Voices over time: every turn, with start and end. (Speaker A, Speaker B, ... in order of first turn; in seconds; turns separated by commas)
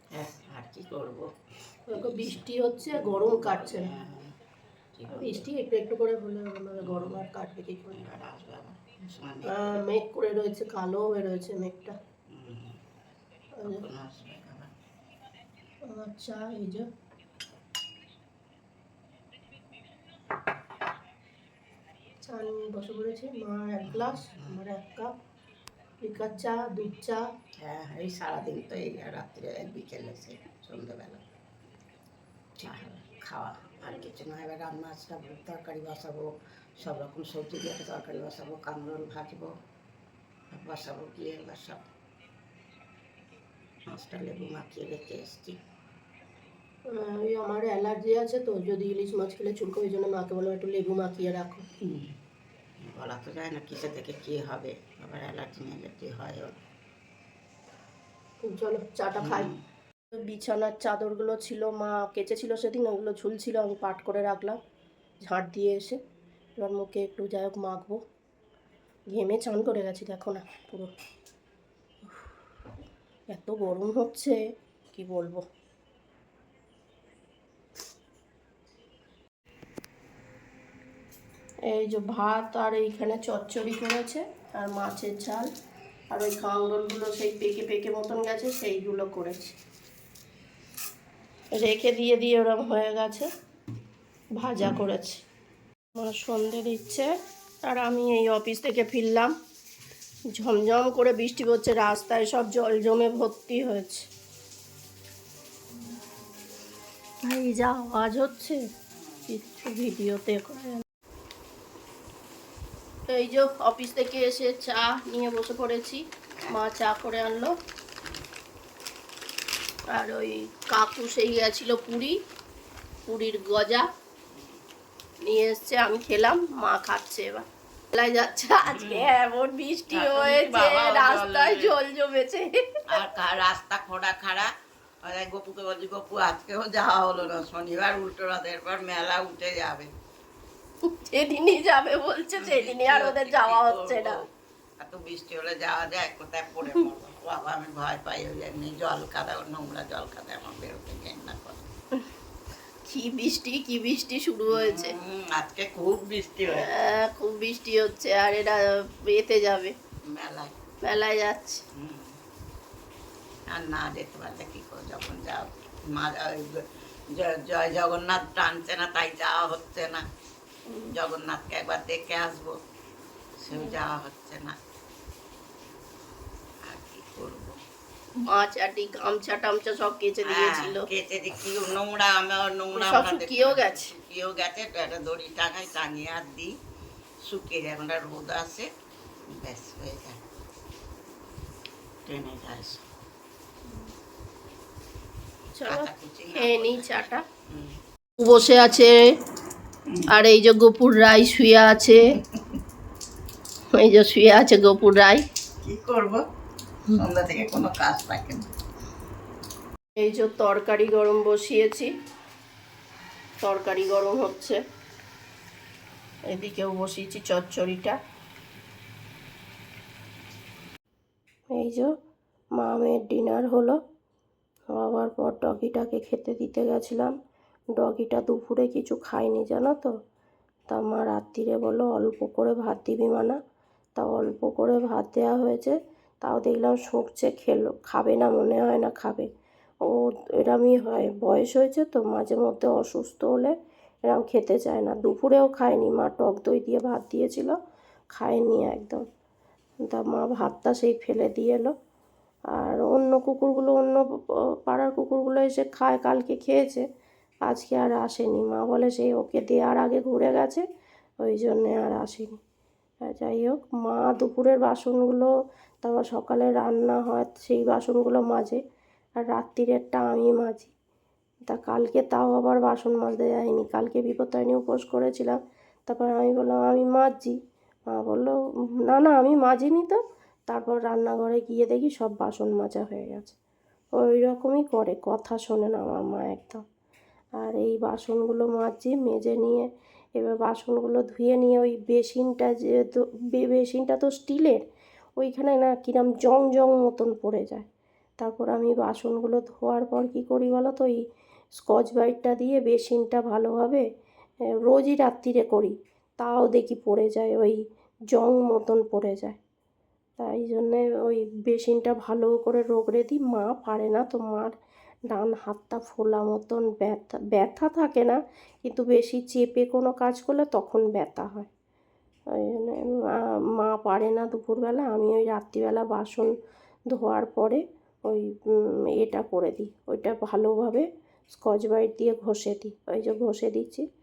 Speaker A: 0.1-1.3, Speaker B: 1.9-3.9, Speaker A: 1.9-4.3, Speaker A: 5.0-5.5, Speaker B: 5.1-8.0, Speaker A: 6.8-7.2, Speaker A: 7.9-9.8, Speaker B: 9.4-11.9, Speaker A: 12.3-12.8, Speaker A: 13.6-14.7, Speaker B: 15.8-16.9, Speaker B: 22.2-25.1, Speaker A: 23.9-24.6, Speaker B: 26.0-27.2, Speaker A: 27.6-31.2, Speaker A: 32.6-39.5, Speaker A: 40.5-41.8, Speaker A: 43.9-45.6, Speaker B: 46.9-51.6, Speaker A: 51.8-52.1, Speaker A: 52.8-56.6, Speaker B: 58.4-59.5, Speaker A: 59.2-59.6, Speaker B: 60.1-64.6, Speaker B: 65.2-66.0, Speaker B: 66.6-68.0, Speaker B: 69.1-70.9, Speaker B: 73.3-74.4, Speaker B: 74.9-75.4, Speaker B: 81.7-85.5, Speaker B: 86.1-89.6, Speaker B: 91.5-93.3, Speaker B: 94.4-95.2, Speaker B: 95.9-97.1, Speaker B: 97.7-99.3, Speaker B: 100.3-104.1, Speaker B: 107.2-108.6, Speaker A: 109.0-109.3, Speaker B: 109.3-110.8, Speaker B: 113.1-117.5, Speaker B: 119.9-122.2, Speaker B: 123.1-123.8, Speaker A: 124.3-124.6, Speaker B: 125.2-132.5, Speaker A: 128.7-129.1, Speaker A: 129.9-131.8, Speaker A: 132.9-134.5, Speaker A: 135.0-139.9, Speaker B: 140.8-144.2, Speaker A: 142.4-144.2, Speaker A: 144.8-151.7, Speaker B: 152.8-154.9, Speaker A: 154.5-156.7, Speaker B: 156.5-159.7, Speaker A: 160.1-160.5, Speaker B: 160.8-161.6, Speaker A: 161.7-162.1, Speaker A: 163.5-170.0, Speaker B: 170.7-170.9, Speaker A: 170.9-172.6, Speaker A: 173.4-174.5, Speaker A: 176.7-177.6, Speaker B: 178.3-180.8, Speaker A: 180.3-186.5, Speaker B: 182.8-183.9, Speaker A: 187.3-188.7, Speaker A: 189.3-190.2, Speaker A: 192.1-192.8, Speaker B: 195.5-197.2, Speaker A: 195.7-197.7, Speaker B: 198.2-198.9, Speaker B: 200.1-202.0, Speaker B: 203.7-205.2, Speaker A: 205.6-206.2, Speaker A: 206.9-208.5, Speaker B: 210.0-211.9, Speaker B: 213.4-214.6, Speaker B: 216.3-218.0, Speaker B: 221.5-221.9, Speaker B: 222.6-223.8, Speaker B: 224.7-227.1, Speaker B: 227.8-229.9, Speaker B: 230.7-233.4, Speaker B: 233.9-239.3, Speaker B: 239.8-243.5, Speaker B: 244.1-247.6, Speaker B: 248.1-249.0, Speaker B: 249.9-251.7, Speaker B: 252.5-254.0, Speaker B: 254.7-256.8, Speaker B: 257.4-260.6, Speaker B: 261.2-262.4, Speaker B: 263.0-265.3, Speaker B: 265.8-268.6, Speaker B: 269.2-270.7, Speaker B: 271.5-277.4, Speaker B: 277.9-278.3, Speaker B: 278.9-283.3, Speaker B: 284.0-286.6, Speaker B: 287.4-294.6, Speaker B: 295.2-297.6, Speaker B: 298.2-301.0, Speaker B: 301.6-303.8, Speaker B: 304.7-307.6, Speaker B: 308.1-309.4, Speaker B: 310.2-314.5, Speaker B: 315.1-321.5, Speaker B: 322.4-326.3, Speaker B: 326.9-328.2, Speaker B: 329.0-333.8